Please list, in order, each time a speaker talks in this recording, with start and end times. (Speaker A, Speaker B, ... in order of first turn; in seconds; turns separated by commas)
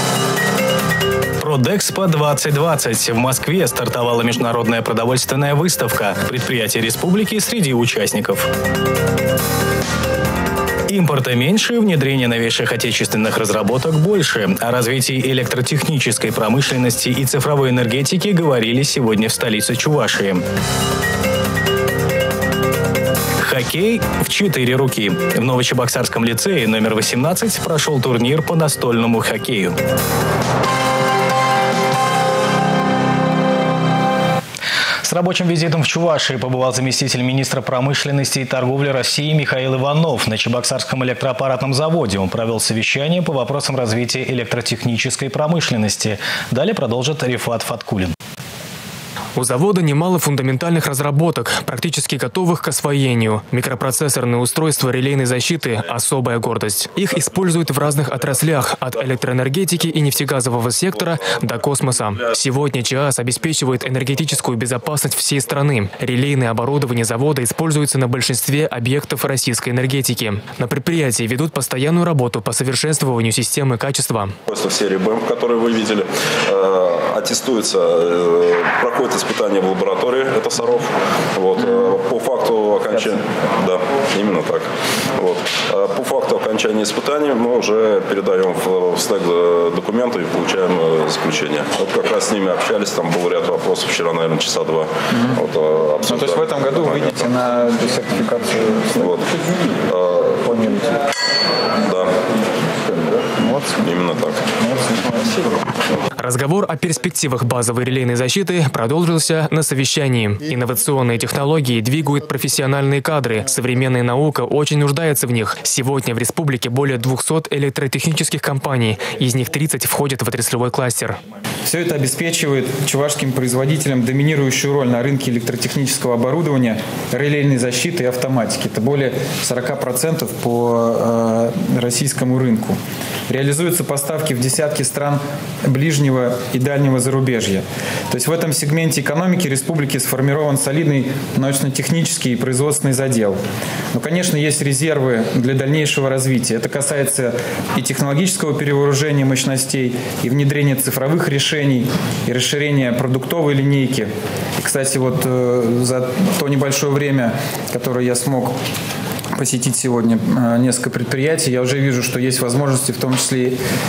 Speaker A: 1.4-8.5, Speaker A: 10.9-20.4, Speaker A: 23.4-29.8, Speaker A: 35.0-48.1, Speaker B: 49.4-74.3, Speaker C: 74.5-97.3, Speaker D: 96.1-98.7, Speaker C: 98.9-100.7, Speaker C: 101.8-102.1, Speaker C: 102.8-104.6, Speaker B: 106.2-121.2, Speaker D: 121.6-143.4, Speaker D: 143.9-158.6, Speaker D: 159.3-163.6